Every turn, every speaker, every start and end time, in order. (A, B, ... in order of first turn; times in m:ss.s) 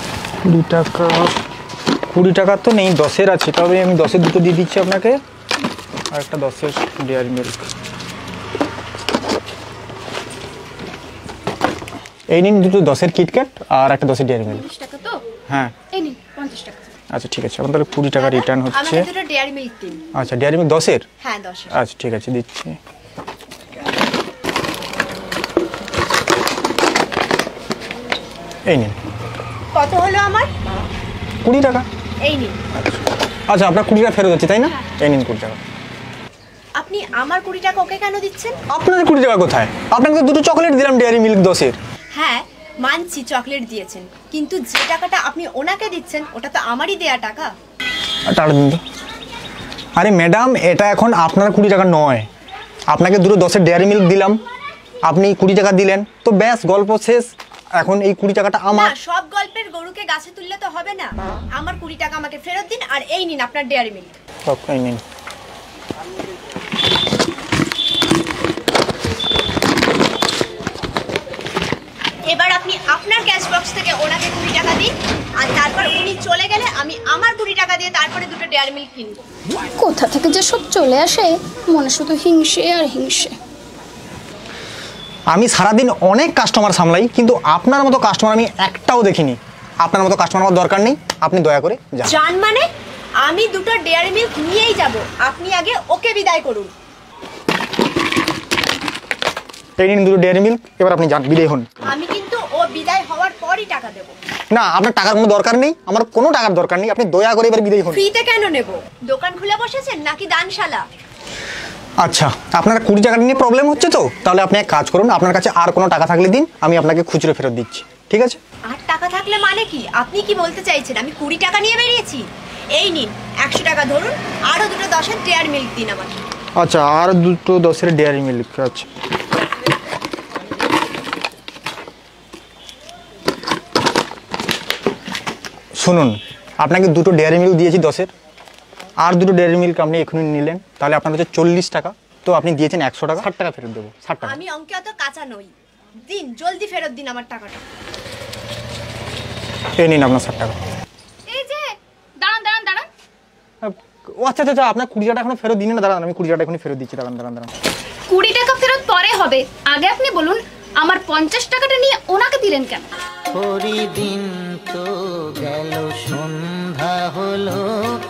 0:00.4-0:01.4 A
0:02.1-0:05.2 A
0:06.1-0:07.7 A
0:12.3-0:14.6 A
0:14.6-0:15.2 B
0:15.5-0:15.8 A
0:15.9-0:16.9 B
0:17.1-0:19.1 A
0:18.2-0:20.0 C
0:20.1-0:21.1 A
0:21.2-0:21.7 C
0:21.7-0:22.8 A
0:28.7-0:29.0 A
0:29.7-0:30.5 C
0:31.4-0:31.9 A
0:32.2-0:32.6 C
0:33.5-0:35.6 A
0:36.8-0:38.6 C
0:38.7-0:41.8 A
0:42.2-0:47.5 C
0:48.3-0:48.8 A
0:50.0-0:52.3 A
0:52.9-0:54.4 A
0:55.0-0:58.9 A
0:58.7-1:04.2 C
1:04.5-1:05.0 A
1:12.3-1:19.2 C
1:19.8-1:23.3 B
1:25.3-1:32.1 A
1:32.0-1:32.7 C
1:33.2-1:36.7 C
1:39.8-1:41.7 A
1:41.9-1:44.2 C
1:44.5-1:48.0 A
1:47.9-1:50.8 C
1:52.0-1:58.4 A
1:58.7-2:06.2 C
2:06.6-2:08.9 A
2:15.8-2:18.1 A
2:19.0-2:24.4 A
2:24.2-2:25.5 C
2:26.1-2:27.6 C
2:29.8-2:30.6 A
2:31.3-2:32.9 B
2:33.6-2:37.5 A
2:38.1-2:42.8 B
2:43.3-2:47.7 D